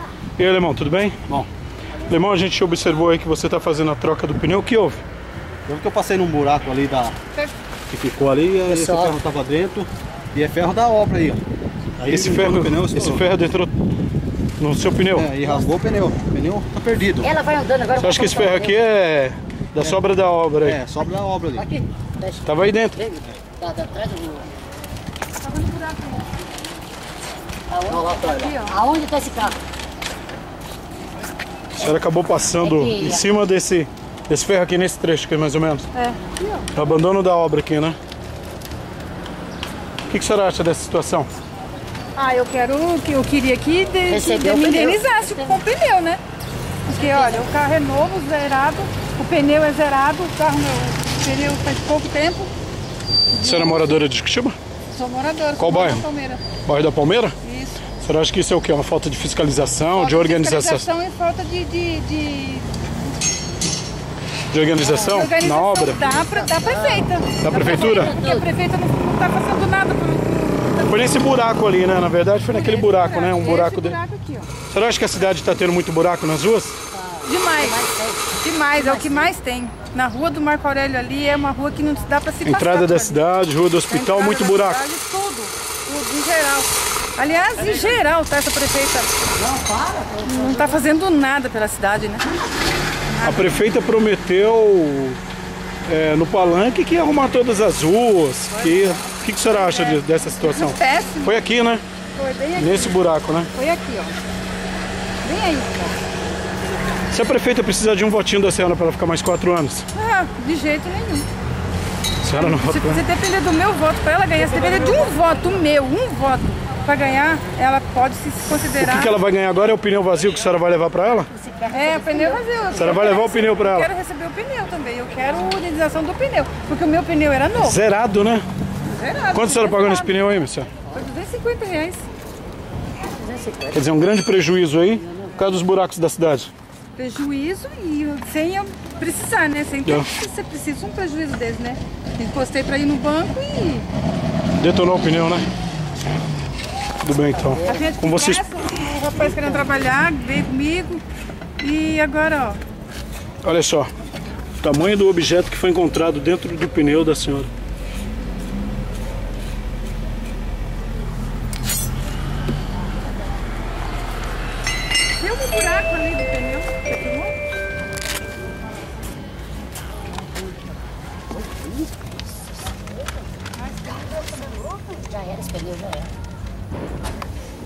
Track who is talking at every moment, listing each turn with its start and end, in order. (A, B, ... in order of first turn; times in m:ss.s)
0:00.4-0:01.5 A
0:02.0-0:05.0 A
0:05.6-0:07.1 B
0:07.9-0:11.4 B
0:08.6-0:09.2 C
0:12.0-0:13.2 B
0:12.1-0:13.7 A
0:14.6-0:15.3 A
0:15.2-0:17.3 B
0:17.2-0:18.8 C
0:18.0-0:20.8 A
0:20.6-0:21.7 B
0:21.6-0:24.5 C
0:22.4-0:23.0 A
0:25.4-0:26.2 D
0:27.7-0:29.6 C
0:28.0-0:28.8 D
0:31.8-0:35.9 A
0:32.6-0:33.2 C
0:36.0-0:36.7 D
0:36.7-0:38.0 A
0:40.1-0:41.3 A
0:42.1-0:46.2 D
0:44.1-0:45.6 C
0:46.8-0:52.5 D
0:46.9-0:47.5 C
0:53.3-0:54.0 D
0:53.4-0:54.6 A
0:54.9-0:56.4 D
0:55.6-0:56.0 A
0:56.6-0:57.4 A
0:57.4-0:57.8 D
0:58.0-1:00.9 A
0:59.9-1:02.8 D
1:04.5-1:06.0 A
1:04.9-1:11.2 D
1:06.1-1:08.5 C
1:07.4-1:08.2 A
1:10.9-1:14.0 A
1:12.4-1:14.5 D
1:14.7-1:16.8 A
1:17.0-1:19.3 C
1:17.2-1:17.8 D
1:18.4-1:23.2 D
1:22.4-1:24.8 A
1:23.9-1:29.1 D
1:27.6-1:27.9 A
1:29.4-1:30.7 C
1:30.2-1:32.2 D
1:33.1-1:33.5 D
1:33.2-1:35.2 A
1:35.9-1:41.8 A
1:38.5-1:41.4 D
1:42.1-1:43.0 D
1:42.6-1:43.5 A
1:43.5-1:44.2 D
1:45.2-1:46.0 D
1:47.1-1:49.9 A
1:49.9-1:51.3 D
1:52.2-1:53.0 A
1:52.3-1:59.2 D
1:58.8-2:01.3 A
2:01.3-2:02.7 C
2:01.7-2:07.8 D
2:02.7-2:03.9 A
2:07.6-2:08.4 A
2:08.8-2:10.1 D
2:09.3-2:10.7 A
2:10.9-2:12.0 D
2:13.2-2:13.7 C
2:13.7-2:16.5 A
2:17.0-2:23.8 D
2:24.6-2:25.4 A
2:27.0-2:28.4 A
2:27.6-2:31.0 D
2:31.6-2:32.6 D
2:33.4-2:33.9 A
2:34.6-2:37.5 A
2:45.2-2:47.3 D
2:54.4-2:56.1 C